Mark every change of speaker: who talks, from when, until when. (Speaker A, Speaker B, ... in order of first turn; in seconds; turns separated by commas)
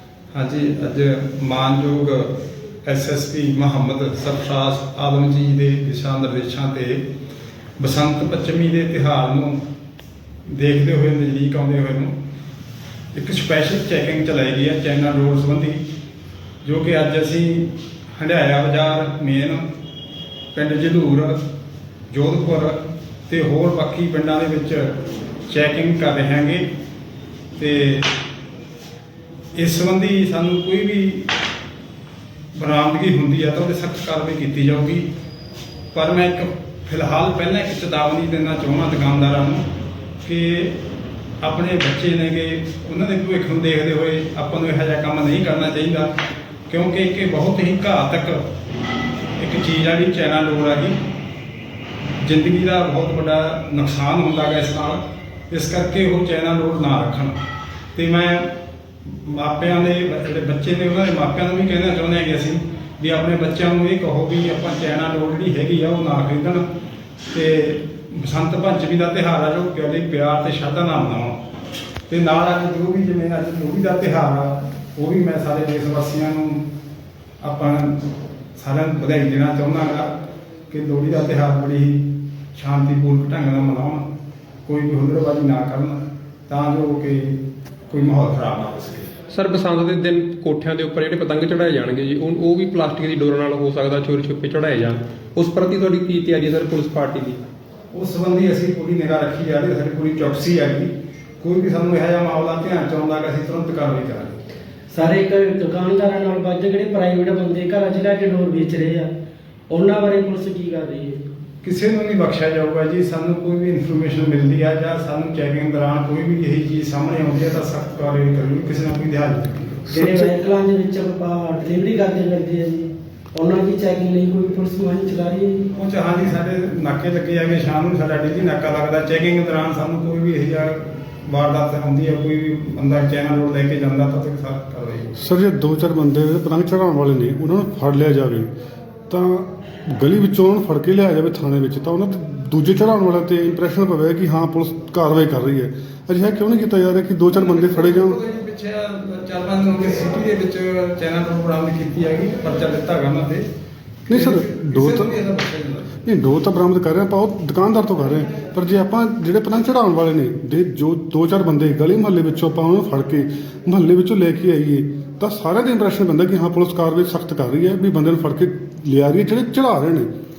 Speaker A: 0.3-7.1, Speaker A: 7.8-9.6, Speaker A: 10.5-12.1, Speaker A: 13.1-15.8, Speaker A: 16.6-19.6, Speaker A: 20.5-21.4, Speaker A: 22.1-25.0, Speaker A: 25.5-26.7, Speaker A: 27.6-28.1, Speaker A: 29.6-31.3, Speaker A: 32.5-35.1, Speaker A: 35.9-39.7, Speaker A: 40.2-40.8, Speaker A: 41.4-46.2, Speaker A: 46.7-48.5, Speaker A: 49.4-51.0, Speaker A: 52.2-57.4, Speaker A: 58.0-58.5, Speaker A: 59.0-66.7, Speaker A: 67.3-71.4, Speaker A: 72.1-76.7, Speaker A: 77.4-80.2, Speaker A: 80.7-84.1, Speaker A: 84.7-89.1, Speaker B: 89.3-97.4, Speaker A: 97.9-104.4, Speaker C: 104.9-109.1, Speaker C: 109.7-111.2, Speaker A: 111.6-120.0, Speaker C: 119.9-125.6, Speaker A: 125.7-135.2, Speaker D: 135.2-138.5, Speaker D: 139.1-148.2, Speaker A: 147.3-153.5, Speaker A: 154.1-155.9, Speaker D: 154.1-155.1, Speaker D: 156.1-170.1